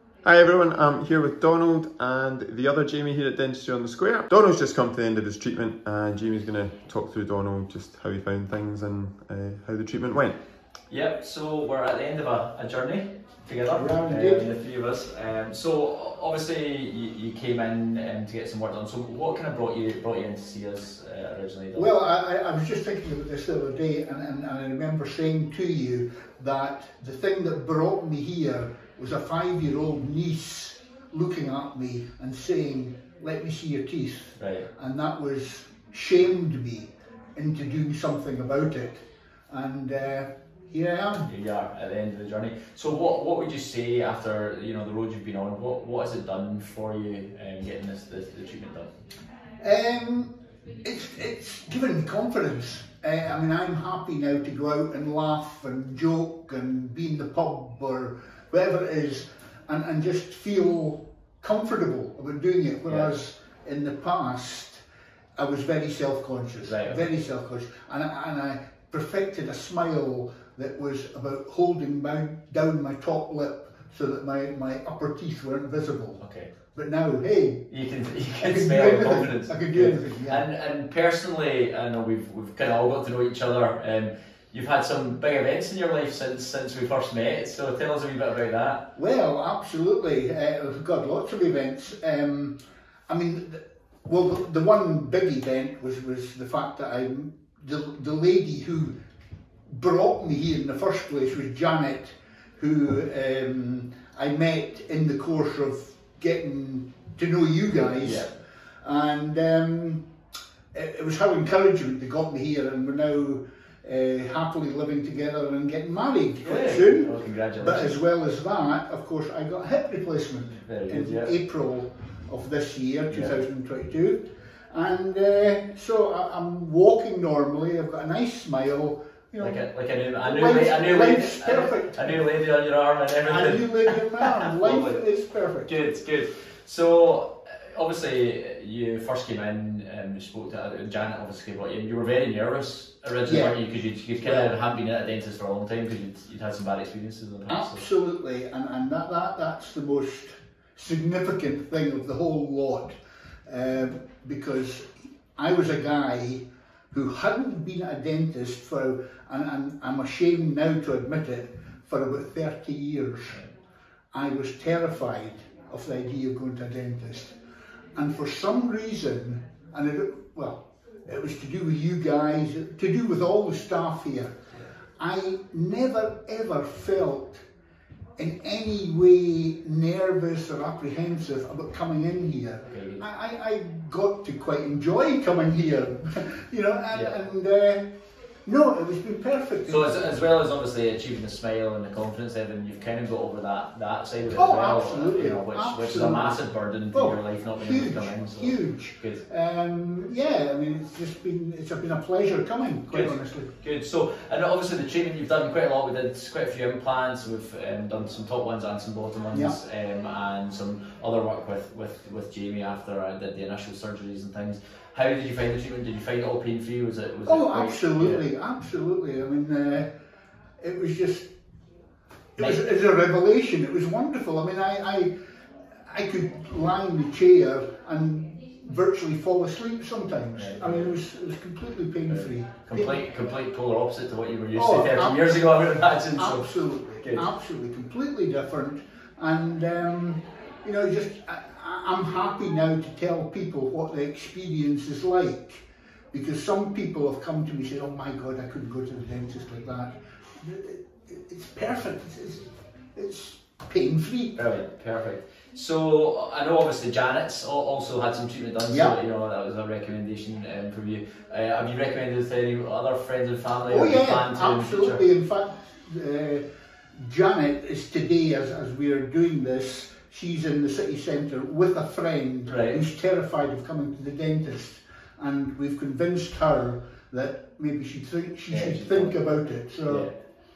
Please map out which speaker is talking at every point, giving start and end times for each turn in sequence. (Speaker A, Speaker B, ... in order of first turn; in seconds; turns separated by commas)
Speaker A: 0.2-10.4, Speaker B: 10.9-21.9, Speaker C: 13.7-14.5, Speaker C: 21.7-41.3, Speaker B: 34.4-34.7, Speaker B: 41.3-48.9, Speaker C: 49.6-64.8, Speaker C: 65.4-76.2, Speaker B: 66.6-67.0, Speaker B: 76.2-76.5, Speaker C: 76.7-77.7, Speaker B: 77.7-88.9, Speaker C: 78.4-80.5, Speaker C: 88.9-92.6, Speaker C: 93.1-98.9, Speaker C: 99.7-108.3, Speaker B: 108.0-108.3, Speaker C: 108.8-110.0, Speaker C: 110.7-129.6, Speaker B: 116.4-118.0, Speaker B: 120.6-121.3, Speaker B: 123.1-123.4, Speaker B: 129.4-135.0, Speaker C: 130.2-132.2, Speaker C: 133.2-135.7, Speaker B: 135.7-147.8, Speaker C: 143.2-143.6, Speaker C: 144.2-144.5, Speaker C: 147.5-163.4, Speaker C: 164.1-167.3, Speaker C: 167.9-174.3, Speaker C: 175.0-177.4, Speaker C: 178.2-187.8, Speaker B: 182.6-183.0, Speaker C: 188.4-190.2, Speaker B: 189.7-199.2, Speaker C: 194.3-203.5, Speaker B: 202.9-218.2, Speaker C: 217.2-219.9, Speaker C: 220.6-221.3, Speaker C: 222.4-225.1, Speaker C: 225.8-233.0, Speaker B: 230.3-230.9, Speaker B: 232.1-237.3, Speaker C: 234.5-254.3, Speaker B: 254.3-265.0, Speaker C: 258.6-258.9, Speaker C: 263.7-266.4, Speaker C: 267.0-280.1, Speaker B: 272.5-272.8, Speaker B: 278.5-279.1, Speaker B: 279.9-280.1